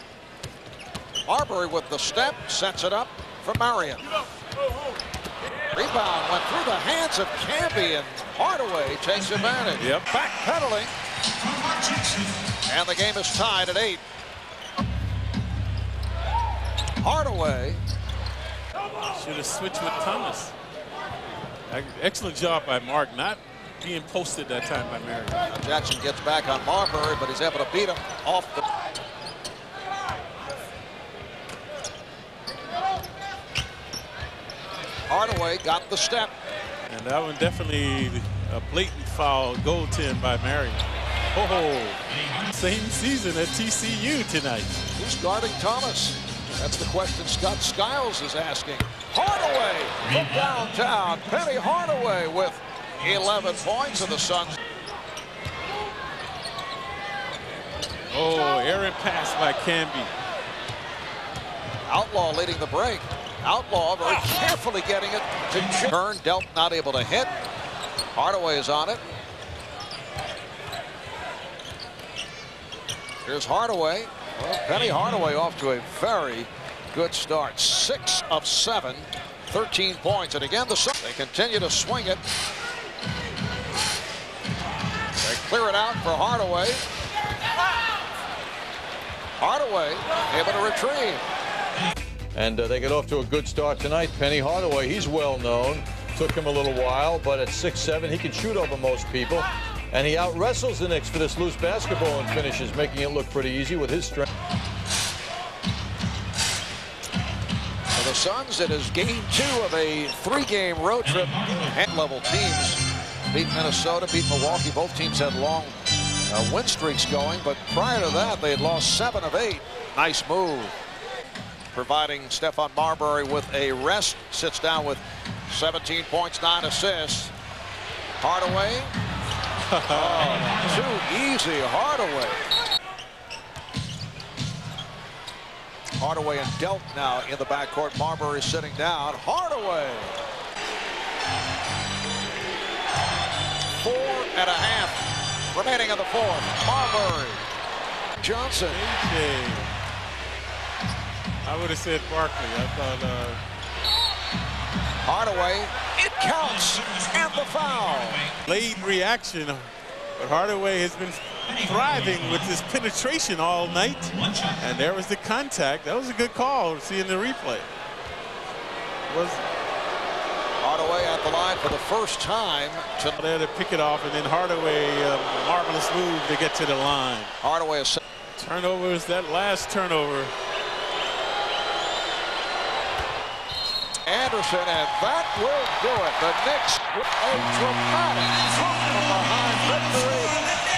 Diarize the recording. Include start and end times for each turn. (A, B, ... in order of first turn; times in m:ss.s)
0:01.3-0:04.1 A
0:05.7-0:10.9 A
0:09.8-0:10.1 B
0:12.7-0:14.0 A
0:17.0-0:17.8 A
0:19.1-0:20.5 B
0:21.7-0:25.4 B
0:25.5-0:28.6 A
0:35.1-0:36.3 A
0:36.9-0:44.8 B
0:45.0-0:54.6 A
0:58.1-1:00.1 B
1:01.9-1:07.3 A
1:08.1-1:09.0 A
1:13.2-1:22.2 A
1:25.2-1:26.8 A
1:29.4-1:31.2 A
1:32.3-1:44.2 C
1:47.9-1:52.8 A
1:53.3-1:55.7 A
1:56.3-2:00.7 A
2:01.7-2:07.3 A
2:08.2-2:08.9 A
2:09.7-2:10.6 B
2:09.9-2:12.4 A
2:16.0-2:20.2 A
2:23.8-2:27.4 A
2:28.2-2:28.8 A
2:28.7-2:29.7 B
2:31.4-2:33.4 B
2:35.0-2:38.3 A
2:38.4-2:47.7 B
2:49.1-2:49.4 B
2:50.6-2:53.2 A
2:53.2-2:57.3 B
2:57.4-2:58.0 A
2:58.4-3:00.3 B
3:04.1-3:10.4 A